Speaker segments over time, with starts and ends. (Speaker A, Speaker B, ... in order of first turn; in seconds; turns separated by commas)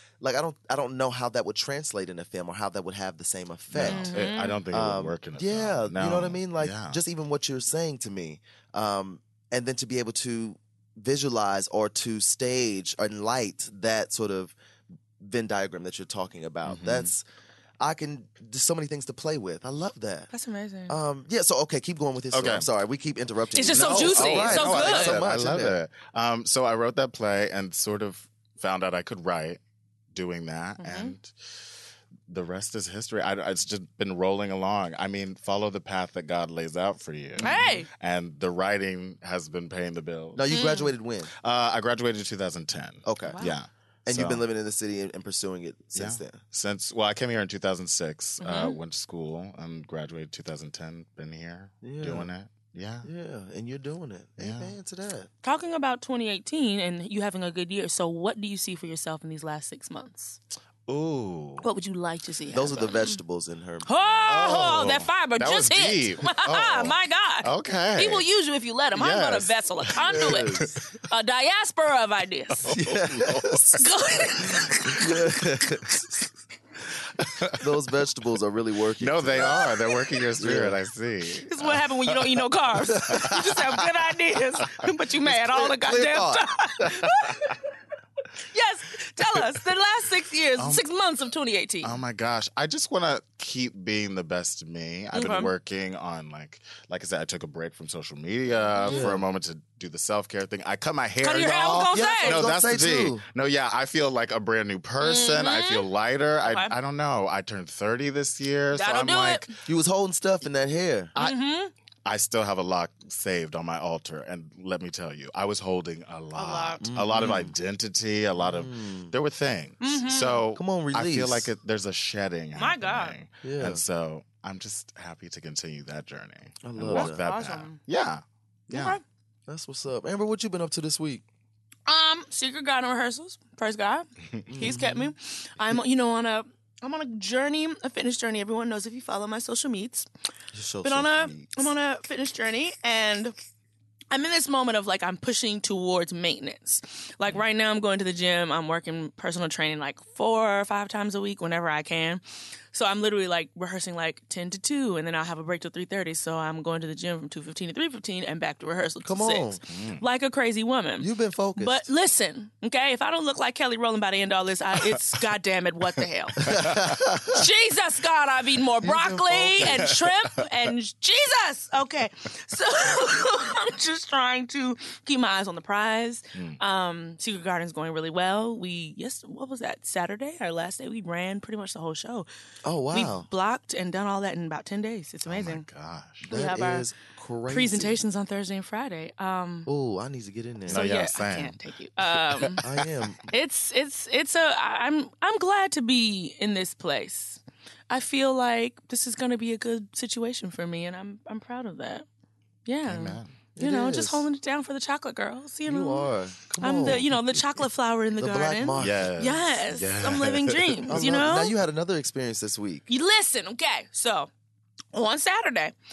Speaker A: 0.2-4.2, Speaker B: 3.7-7.0, Speaker C: 3.8-4.6, Speaker A: 4.7-14.6, Speaker A: 15.2-17.2, Speaker B: 16.6-17.1, Speaker A: 17.8-20.3, Speaker C: 20.3-21.0, Speaker A: 20.9-25.8, Speaker B: 22.3-22.7, Speaker C: 23.5-25.2, Speaker B: 23.7-29.6, Speaker B: 30.1-31.3, Speaker C: 30.8-31.1, Speaker B: 32.3-40.5, Speaker C: 37.4-37.9, Speaker A: 40.3-41.3, Speaker C: 40.5-40.9, Speaker B: 41.4-44.4, Speaker A: 43.0-43.5, Speaker C: 43.3-43.6, Speaker A: 44.1-46.4, Speaker B: 46.0-53.1, Speaker C: 48.4-48.8, Speaker A: 51.8-52.3, Speaker A: 53.0-55.3, Speaker B: 54.4-54.7, Speaker C: 55.4-60.4, Speaker B: 60.9-61.7, Speaker C: 61.6-63.2, Speaker A: 62.5-64.8, Speaker C: 63.9-72.7, Speaker B: 64.1-68.3, Speaker B: 68.9-70.8, Speaker A: 70.0-70.8, Speaker B: 72.6-74.5, Speaker A: 72.7-73.8, Speaker C: 73.8-75.2, Speaker A: 74.9-75.9, Speaker B: 77.2-77.6, Speaker A: 77.6-79.7, Speaker B: 79.0-82.4, Speaker A: 80.4-80.8, Speaker C: 81.5-87.6, Speaker A: 83.0-83.4, Speaker A: 85.2-87.2, Speaker C: 88.5-92.0, Speaker B: 90.6-90.8, Speaker B: 91.8-109.5, Speaker C: 95.1-95.5, Speaker C: 98.7-99.1, Speaker A: 98.9-99.2, Speaker C: 101.2-102.5, Speaker A: 101.9-103.2, Speaker C: 105.0-105.9, Speaker C: 106.4-106.8, Speaker C: 108.7-109.5, Speaker A: 109.7-111.2, Speaker C: 111.2-111.7, Speaker B: 112.0-129.0, Speaker C: 116.3-116.8, Speaker A: 116.8-117.5, Speaker A: 118.4-119.1, Speaker C: 119.8-120.4, Speaker A: 120.5-121.5, Speaker C: 122.6-123.2, Speaker A: 123.4-123.8, Speaker A: 126.6-127.2, Speaker C: 126.9-127.8, Speaker C: 128.7-129.0, Speaker A: 129.5-131.2, Speaker C: 131.9-140.1, Speaker B: 134.4-134.7, Speaker A: 134.5-135.1, Speaker A: 140.5-141.7, Speaker C: 140.8-143.3, Speaker C: 144.1-152.2, Speaker C: 152.7-182.3, Speaker A: 159.1-159.6, Speaker B: 159.7-160.0, Speaker A: 161.0-161.9, Speaker B: 166.4-167.0, Speaker A: 166.4-167.4, Speaker A: 168.8-169.9, Speaker B: 169.6-169.9, Speaker B: 176.3-176.6, Speaker A: 182.6-183.3, Speaker C: 182.9-185.7, Speaker B: 185.3-186.2, Speaker A: 186.2-188.0, Speaker C: 186.3-186.9, Speaker C: 187.5-189.7, Speaker A: 189.7-190.8, Speaker B: 190.7-191.6, Speaker C: 190.7-192.6, Speaker B: 192.3-192.8, Speaker A: 192.6-193.3, Speaker C: 193.3-202.1, Speaker C: 202.7-211.5, Speaker B: 202.9-203.4, Speaker A: 203.6-204.3, Speaker A: 205.7-207.1, Speaker A: 208.2-209.1, Speaker B: 208.8-211.0, Speaker A: 210.9-212.9, Speaker C: 212.9-214.3, Speaker C: 214.9-215.8